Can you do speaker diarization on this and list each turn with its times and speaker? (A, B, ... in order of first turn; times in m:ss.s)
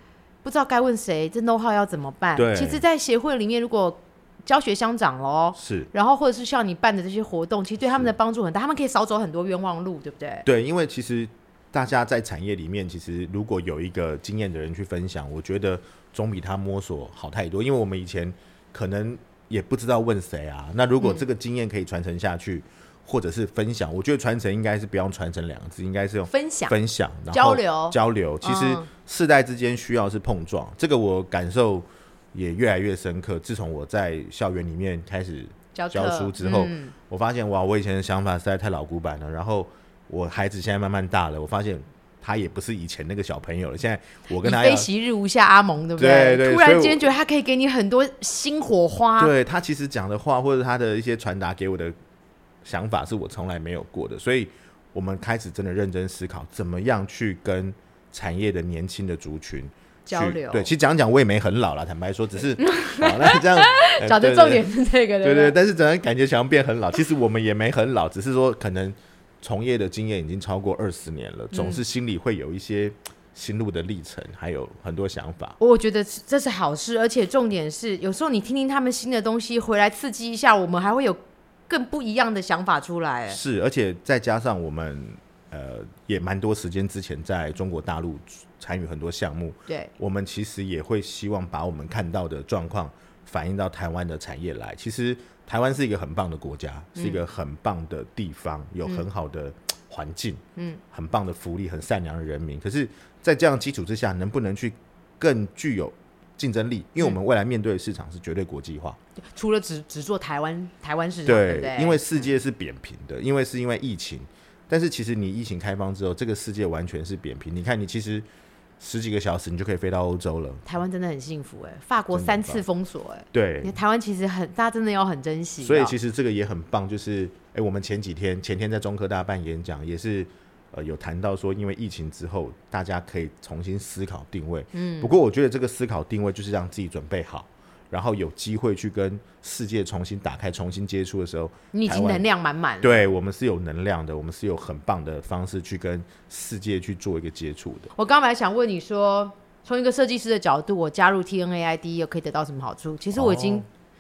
0:00.4-0:10.5 A
0:02.4-0:02.8 B
0:05.6-0:05.9 B
0:10.5-0:44.9 B
0:21.0-0:21.2 A
0:26.3-0:26.8 A
0:27.3-0:28.9 A
0:35.8-0:36.9 A
0:44.4-0:49.3 A
0:46.0-0:47.0 B
0:49.2-0:52.0 B
0:52.6-1:04.6 B
1:00.0-1:00.7 A
1:02.6-1:05.6 A
1:05.2-1:15.6 B
1:11.5-1:11.8 A
1:15.6-1:23.4 A
1:23.3-1:40.4 B
1:40.9-1:49.0 B
1:49.2-1:52.3 A
1:51.2-1:58.2 B
1:58.8-2:00.6 B
2:00.6-2:06.0 A
2:02.1-2:02.6 B
2:03.3-2:03.8 B
2:05.6-2:22.2 B
2:14.7-2:15.2 A
2:21.7-2:23.1 A
2:22.8-2:27.9 B
2:28.0-2:33.6 A
2:33.1-2:33.7 B